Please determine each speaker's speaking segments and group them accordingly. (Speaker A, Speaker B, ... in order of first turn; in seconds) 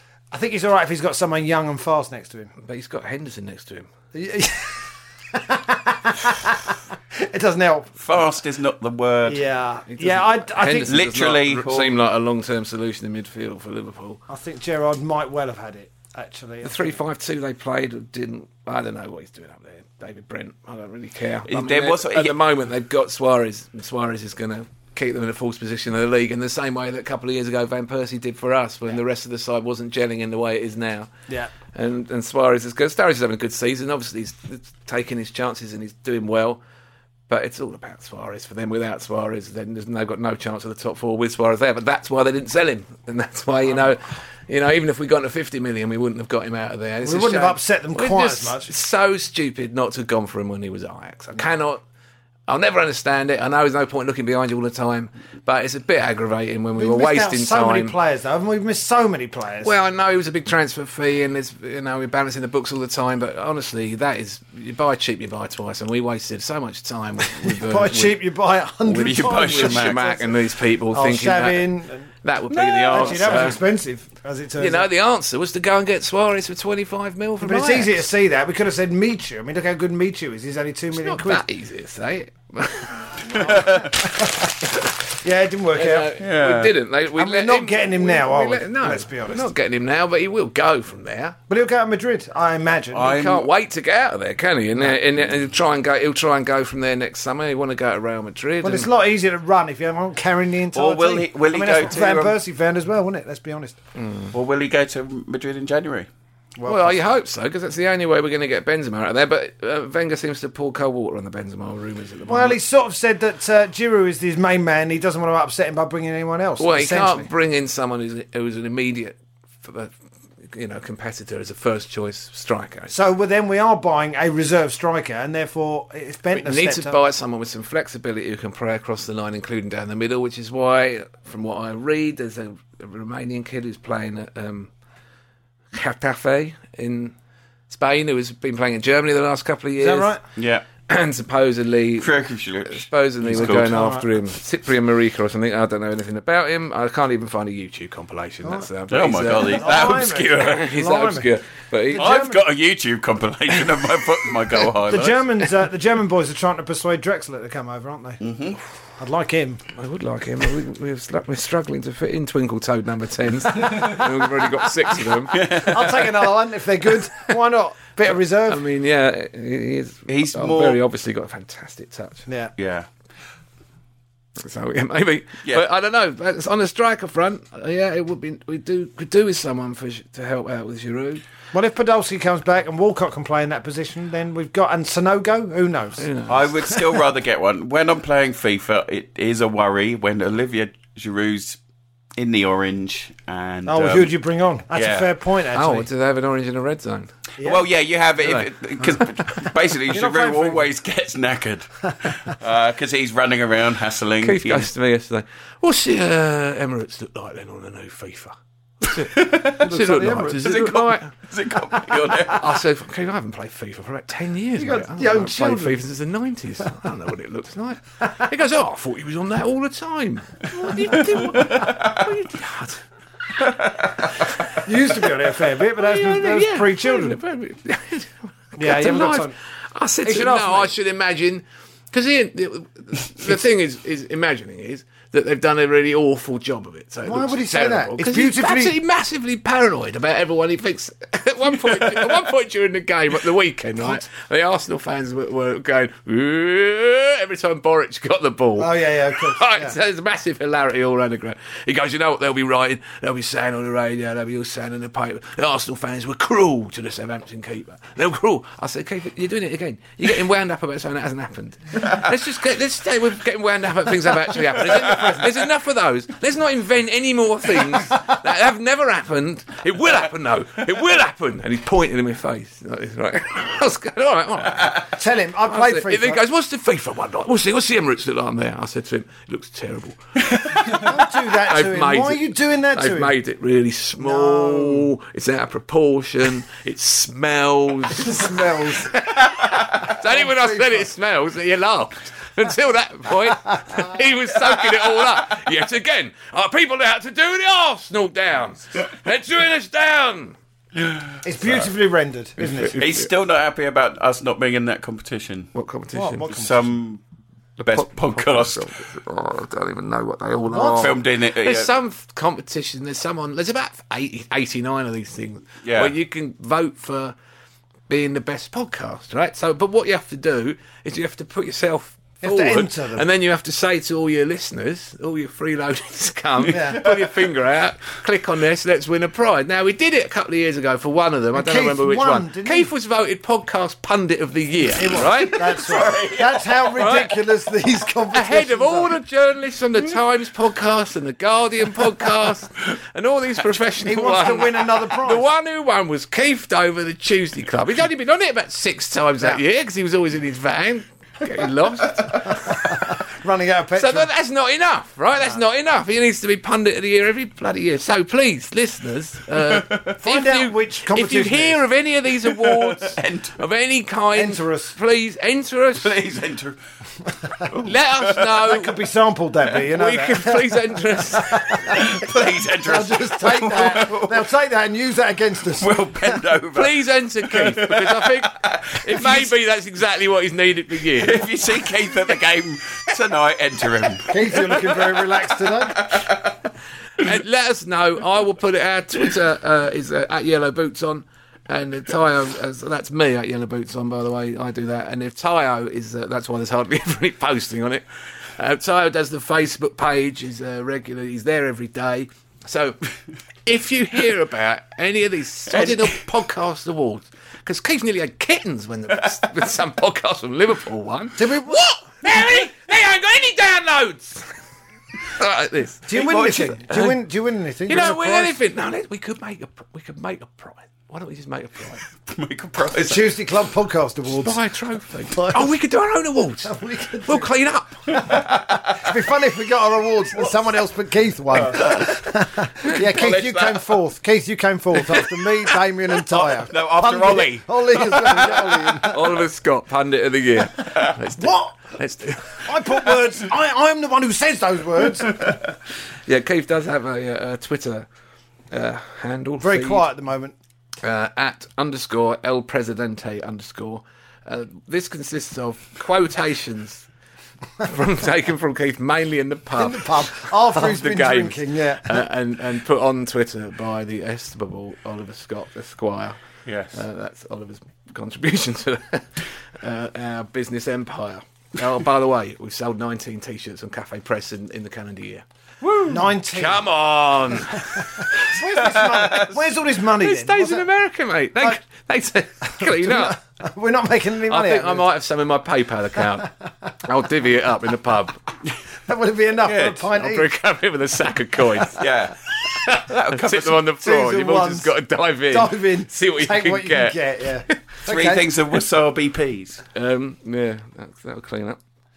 Speaker A: 0.3-2.5, 4.1-7.9, 9.2-10.9, 14.3-16.9, 47.0-48.7, 56.8-59.7, 67.4-70.3, 70.9-72.1, 72.9-74.9, 77.4-81.4, 83.3-86.1, 87.1-89.5, 91.5-93.2, 98.6-103.8, 106.5-107.0, 112.3-117.3, 122.9-127.0, 139.8-140.2, 143.3-144.1, 148.4-148.7, 149.4-151.3, 151.9-152.4, 154.8-158.2, 159.0-159.6, 165.5-168.6, 172.3-172.5, 181.5-186.1, 193.7-195.9, 199.9-200.7, 209.6-210.6, 214.6-215.8, 224.6-227.2, 228.6-229.3, 230.0-230.7, 237.0-238.8, 248.6-249.8, 264.8-265.1, 274.9-276.2, 280.6-283.1, 284.0-284.9, 287.9-288.9, 290.0-290.9, 301.2-302.8, 305.9-306.7, 310.5-310.9, 322.2-323.0, 326.5-326.8, 331.3-332.7, 334.7-339.0, 343.8-345.3, 352.3-354.1, 360.0-361.6, 364.1-364.8, 368.4-371.9, 372.6-376.2, 384.1-386.0, 411.2-411.6, 415.9-418.4, 422.7-424.4, 425.1-425.5, 426.4-427.3, 428.1-439.0, 441.2-441.6, 442.4-445.3, 449.4-450.3, 459.6-462.0, 475.9-476.6, 477.7-480.6, 482.6-484.9, 488.9-490.3, 493.8-494.7, 495.3-498.3
Speaker B: 2.6-3.9, 9.9-14.2, 16.6-31.1, 31.7-36.6, 37.3-51.8, 52.5-57.9, 59.6-68.2, 68.8-71.7, 72.2-73.6, 74.6-78.0, 80.9-83.5, 85.7-91.3, 93.0-98.9, 104.0-104.3, 106.6-112.6, 116.6-119.9, 120.5-122.9, 126.3-134.7, 135.7-137.1, 137.7-140.1, 140.8-142.1, 142.7-152.1, 159.7-165.5, 168.5-172.2, 174.4-181.2, 186.0-186.5, 195.5-197.1, 204.2-211.1, 212.2-222.8, 225.8-274.9, 275.5-280.9, 281.5-288.3, 288.9-300.4, 302.4-303.1, 305.5-306.3, 307.6-317.1, 317.9-335.6, 336.8-337.1, 338.1-352.5, 353.8-365.9, 367.6-368.8, 369.7-371.7, 376.5-381.2, 387.0-397.8, 398.4-402.8, 403.4-414.3, 415.1-415.9, 416.7-417.0, 417.7-421.8, 424.1-428.0, 438.9-442.4, 446.1-447.9, 448.5-449.9, 450.8-456.9, 457.6-466.2, 466.7-477.9, 480.0-483.2, 484.3-486.3, 486.8-488.2, 489.9-491.8, 492.4-497.6, 499.7-501.6
Speaker C: 8.0-9.4, 10.8-11.9, 21.5-22.4, 69.0-70.1, 72.6-73.5, 83.4-83.9, 86.2-86.7, 92.9-93.5, 100.7-102.3, 104.3-106.1, 140.3-140.6, 142.0-143.8, 148.9-150.5, 151.9-155.2, 158.2-158.6, 165.3-166.1, 170.1-170.8, 172.6-172.9, 186.3-191.6, 192.2-194.1, 194.7-195.1, 197.4-204.7, 209.1-209.7, 210.3-212.4, 221.2-222.0, 300.7-301.5, 302.8-305.5, 306.3-307.0, 307.7-308.6, 310.7-311.7, 315.6-315.9, 326.5-327.1, 335.2-336.7, 359.6-359.9, 362.3-363.4, 365.8-366.6, 367.5-368.4, 371.7-374.2, 375.6-376.8, 377.3-379.3, 381.0-384.9, 385.8-386.3, 405.5-406.0, 415.9-416.6, 422.1-423.1, 427.9-428.9, 431.3-431.9, 432.8-433.7, 436.1-438.9, 466.4-466.8, 478.3-479.3, 489.4-489.8, 491.8-493.7, 497.8-499.6